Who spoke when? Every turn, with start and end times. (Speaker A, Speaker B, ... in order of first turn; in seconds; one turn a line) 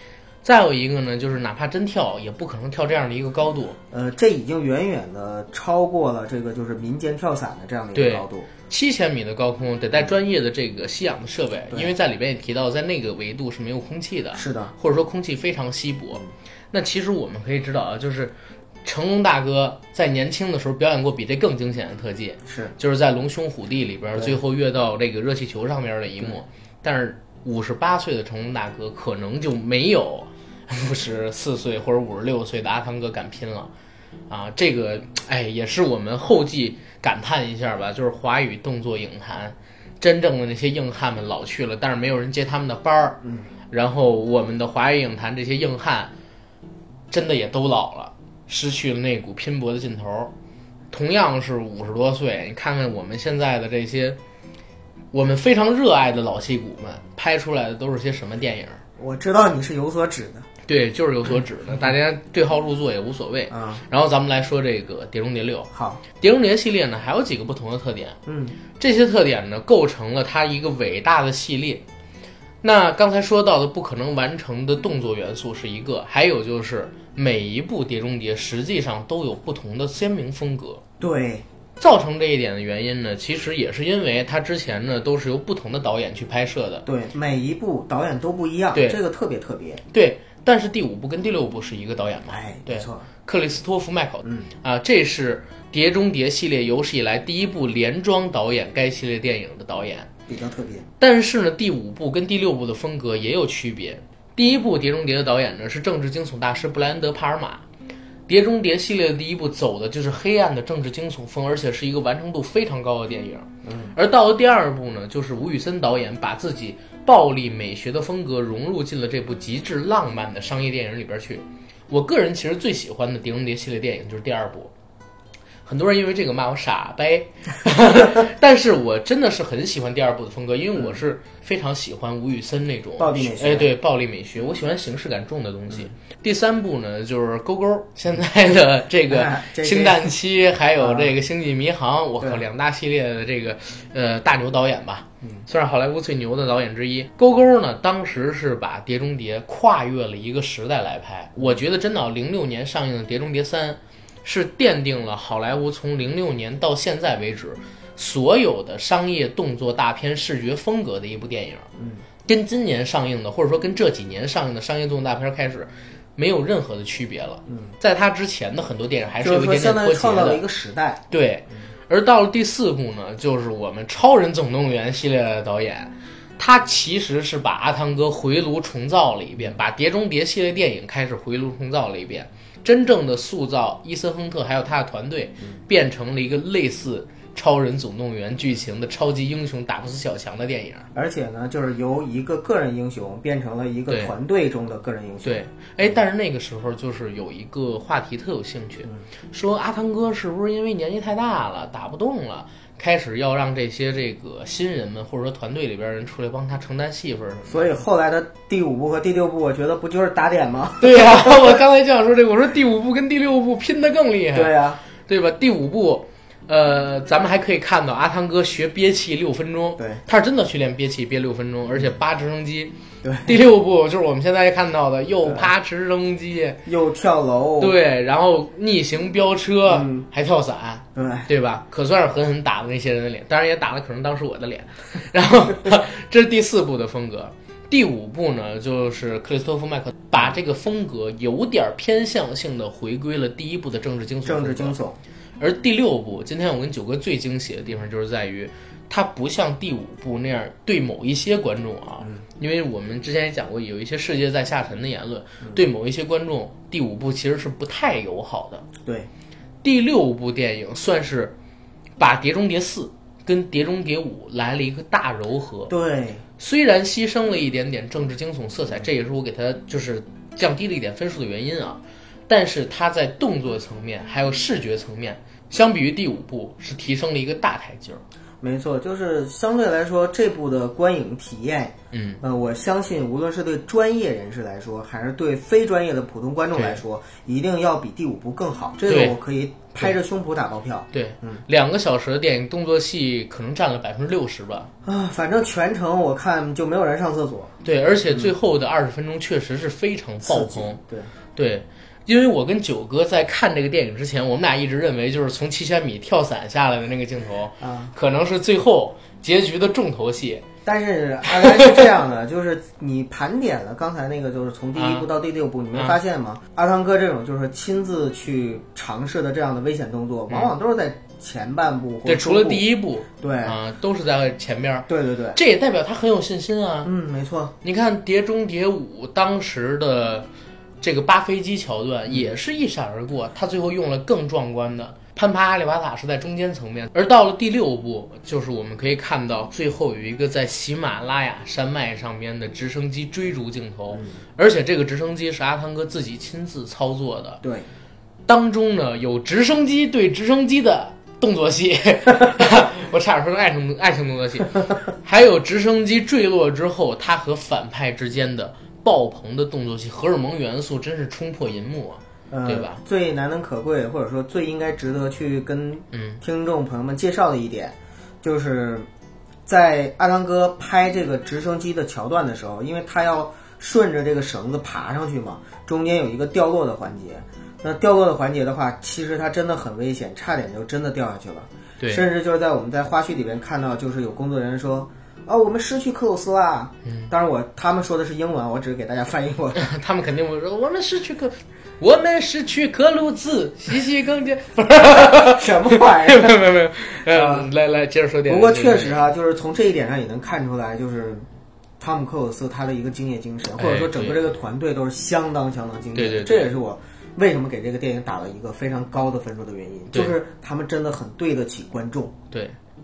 Speaker A: 0.4-3.8
Speaker B: 3.9-8.5
Speaker A: 7.9-18.3
Speaker B: 14.3-14.7
Speaker A: 18.8-33.7
Speaker B: 22.5-22.7
Speaker A: 34.3-46.1
Speaker B: 43.2-43.5
Speaker A: 47.1-50.3
Speaker A: 50.9-54.2
Speaker A: 55.1-58.8
Speaker B: 59.0-60.5
Speaker A: 60.7-68.2
Speaker B: 63.5-63.8
Speaker B: 65.7-66.0
Speaker B: 68.2-68.6
Speaker A: 68.8-71.8
Speaker A: 72.6-80.8
Speaker B: 81.0-81.5
Speaker A: 81.8-86.8
Speaker B: 86.8-89.8
Speaker A: 88.7-89.0
Speaker A: 89.9-100.1
Speaker B: 92.3-93.1
Speaker B: 94.2-94.5
Speaker B: 100.3-100.9
Speaker A: 101.0-107.6
Speaker A: 108.3-124.7
Speaker B: 113.6-113.9
Speaker A: 125.6-161.7
Speaker B: 133.0-133.7
Speaker B: 139.1-140.1
Speaker B: 140.8-141.1
Speaker B: 161.8-162.0
Speaker A: 162.2-170.4
Speaker B: 169.2-171.0
Speaker A: 171.1-190.9
Speaker B: 190.9-195.4
Speaker A: 195.2-207.7
Speaker B: 207.5-211.6
Speaker A: 210.8-222.7
Speaker B: 214.3-214.8
Speaker B: 223.0-223.4
Speaker A: 223.2-226.6
Speaker B: 226.7-227.8
Speaker A: 227.6-244.8
Speaker B: 229.7-230.1
Speaker B: 230.9-231.3
Speaker B: 244.2-245.0
Speaker A: 245.4-258.6
Speaker B: 258.8-259.1
Speaker A: 259.6-261.3
Speaker A: 262.0-265.7
Speaker B: 265.7-266.2
Speaker A: 266.4-278.0
Speaker B: 278.4-291.4
Speaker A: 281.9-282.2
Speaker A: 286.5-286.8
Speaker A: 288.9-289.2
Speaker A: 290.9-294.7
Speaker B: 294.8-297.5
Speaker A: 297.6-300.8
Speaker B: 300.2-301.1
Speaker A: 301.3-310.4
Speaker B: 307.6-307.9
Speaker B: 310.6-322.6
Speaker A: 311.3-311.8
Speaker A: 314.8-315.1
Speaker A: 322.0-326.9
Speaker B: 323.2-323.6
Speaker B: 324.9-325.4
Speaker B: 326.8-327.5
Speaker A: 327.6-330.3
Speaker A: 330.8-347.4
Speaker B: 343.9-344.2
Speaker B: 347.4-347.7
Speaker A: 348.3-362.8
Speaker B: 362.3-368.9
Speaker A: 365.9-366.2
Speaker B: 369.4-389.6
Speaker A: 386.8-387.1
Speaker A: 389.5-399.1
Speaker B: 394.9-396.4
Speaker B: 397.1-397.5
Speaker B: 398.3-401.2
Speaker B: 401.8-412.1
Speaker A: 403.5-404.2
Speaker A: 405.9-406.5
Speaker A: 409.9-410.2
Speaker A: 412.3-412.6